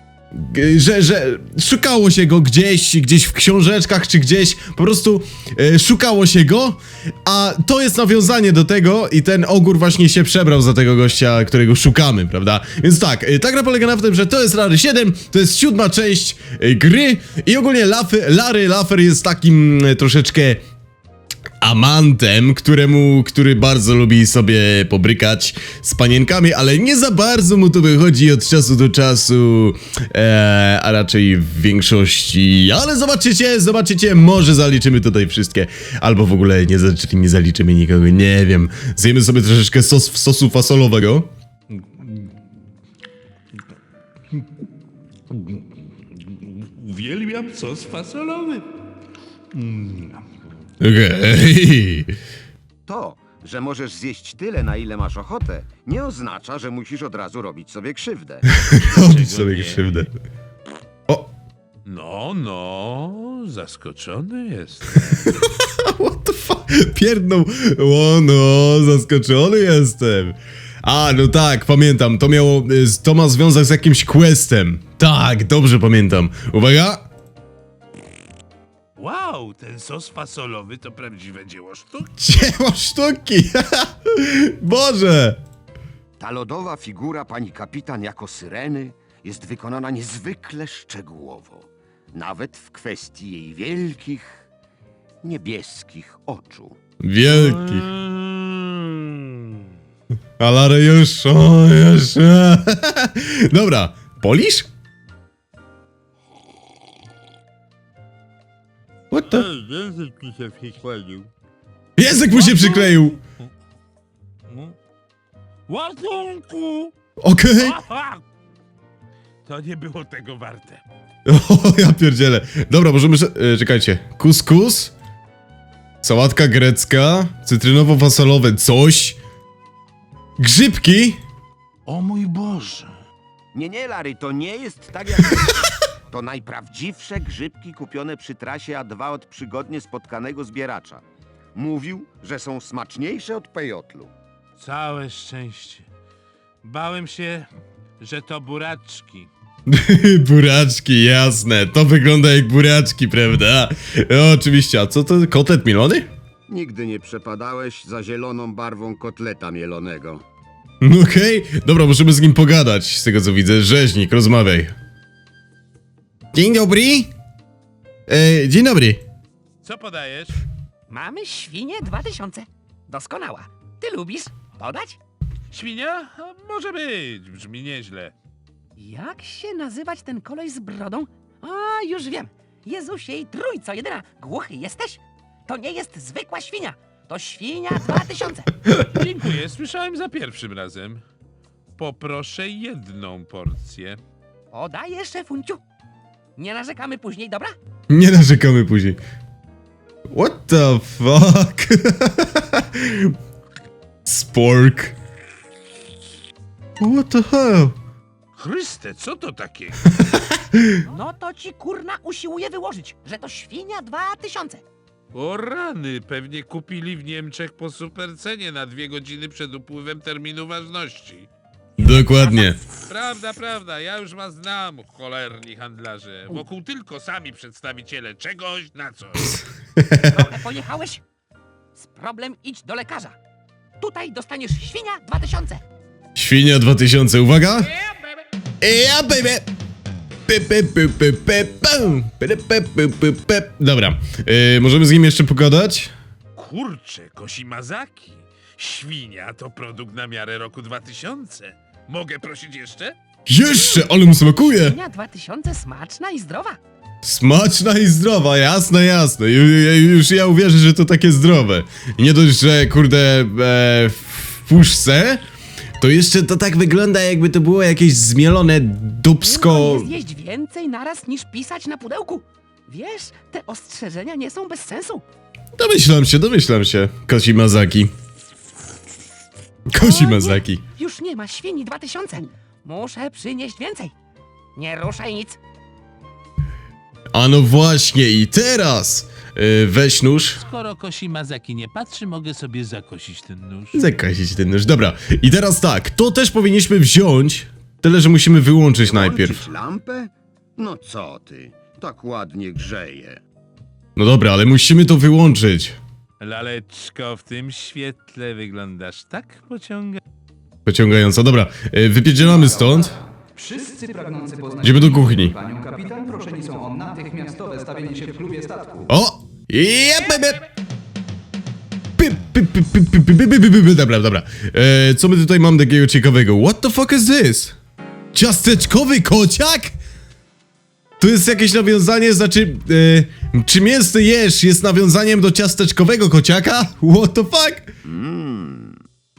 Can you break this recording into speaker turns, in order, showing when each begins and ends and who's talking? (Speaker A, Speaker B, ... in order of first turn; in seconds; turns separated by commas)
Speaker A: 0.3-20.6, Speaker A: 21.6-41.3, Speaker B: 41.7-42.3, Speaker B: 45.3-48.7, Speaker B: 49.5-50.2, Speaker A: 50.8-52.1, Speaker C: 52.9-58.5, Speaker A: 58.6-60.1, Speaker B: 58.7-60.1, Speaker B: 61.9-65.4, Speaker A: 65.2-77.1, Speaker B: 79.0-82.1, Speaker A: 82.2-85.4, Speaker C: 86.2-94.5, Speaker C: 95.2-96.8, Speaker A: 97.0-97.9, Speaker B: 97.2-99.5, Speaker A: 100.4-104.7, Speaker A: 109.1-109.5, Speaker B: 109.3-111.3, Speaker A: 112.0-113.2, Speaker B: 112.3-113.1, Speaker B: 114.5-114.8, Speaker B: 115.7-116.9, Speaker A: 117.2-117.8, Speaker B: 117.6-118.2, Speaker B: 119.5-120.8, Speaker A: 121.3-124.9, Speaker A: 126.0-129.2, Speaker A: 130.4-131.2, Speaker B: 131.9-132.9, Speaker C: 133.5-141.0, Speaker C: 141.6-144.1, Speaker B: 144.6-145.9, Speaker B: 146.6-147.5, Speaker B: 148.0-149.3, Speaker A: 149.7-156.1, Speaker C: 156.5-160.2, Speaker A: 160.8-164.8, Speaker A: 166.3-167.1, Speaker A: 168.1-169.0, Speaker B: 169.6-170.4, Speaker D: 170.9-175.0, Speaker B: 175.5-178.1, Speaker D: 178.8-188.5, Speaker B: 188.8-191.0, Speaker B: 191.8-194.0, Speaker D: 194.5-195.6, Speaker D: 196.4-197.6, Speaker A: 197.9-199.0, Speaker A: 200.1-203.2, Speaker A: 204.1-204.9, Speaker A: 206.8-207.8, Speaker B: 208.4-210.1, Speaker A: 210.0-210.8, Speaker D: 210.8-214.6, Speaker B: 215.1-221.3, Speaker A: 221.8-222.6, Speaker B: 222.8-229.4, Speaker A: 229.8-230.2, Speaker D: 230.1-231.0, Speaker D: 231.8-233.2, Speaker D: 233.8-235.6, Speaker A: 236.2-237.7, Speaker A: 238.6-239.5, Speaker A: 240.3-245.9, Speaker B: 246.3-253.0, Speaker A: 253.3-254.8, Speaker D: 253.5-256.6, Speaker A: 257.0-265.2, Speaker A: 265.8-269.9, Speaker D: 269.2-275.0, Speaker A: 275.6-277.9, Speaker A: 279.7-280.6, Speaker D: 279.8-283.9, Speaker D: 284.6-285.4, Speaker A: 287.1-290.4, Speaker B: 290.4-293.8, Speaker A: 293.7-299.4, Speaker C: 298.8-303.2, Speaker A: 304.0-305.8, Speaker B: 306.2-310.0, Speaker A: 310.6-312.9, Speaker E: 312.2-318.9, Speaker A: 314.6-315.3, Speaker A: 318.9-320.4, Speaker A: 322.0-327.6, Speaker A: 328.1-329.8, Speaker A: 331.0-337.7, Speaker C: 337.9-338.8